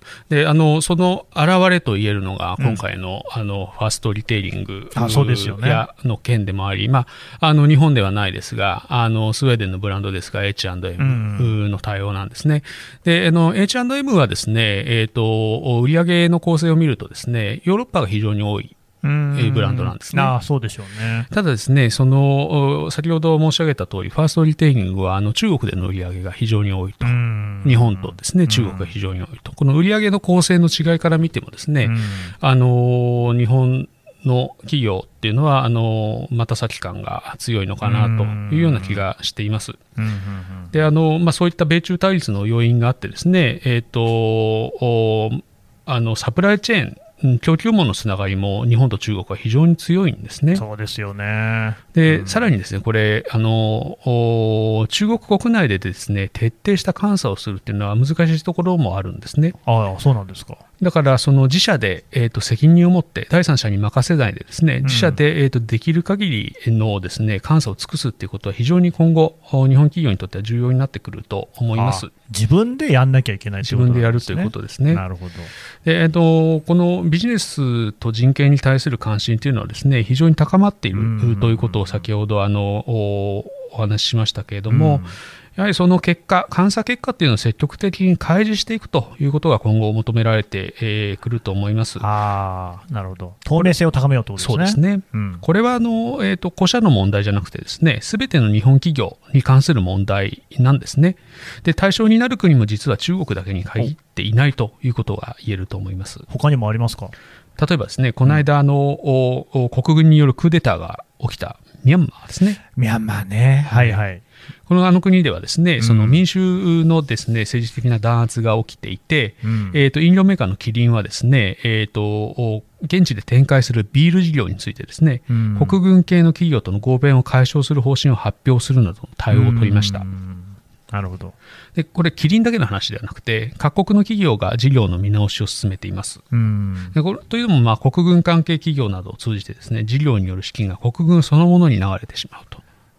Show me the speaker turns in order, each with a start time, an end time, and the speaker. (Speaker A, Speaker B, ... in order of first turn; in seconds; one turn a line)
Speaker A: 0.3-18.8
Speaker B: 4.9-5.9
Speaker B: 11.0-11.6
Speaker B: 19.0-21.3
Speaker A: 19.3-20.4
Speaker A: 21.3-39.8
Speaker B: 27.0-28.9
Speaker B: 31.8-32.4
Speaker B: 37.8-39.0
Speaker B: 40.0-40.7
Speaker A: 40.7-50.6
Speaker B: 50.5-52.5
Speaker A: 51.9-59.6
Speaker B: 59.6-60.6
Speaker A: 60.8-72.1
Speaker B: 64.8-65.2
Speaker B: 71.7-75.5
Speaker A: 73.6-75.0
Speaker A: 75.8-92.1
Speaker B: 80.9-82.0
Speaker B: 84.7-85.2
Speaker B: 92.0-95.4
Speaker A: 94.4-106.3
Speaker B: 106.3-107.1
Speaker A: 107.6-112.6
Speaker B: 112.8-114.2
Speaker A: 113.7-114.0
Speaker A: 114.7-130.1
Speaker B: 115.8-116.2
Speaker B: 119.4-119.8
Speaker B: 125.3-125.8
Speaker B: 129.3-131.3
Speaker A: 131.8-136.2
Speaker B: 136.3-136.9
Speaker A: 136.9-142.6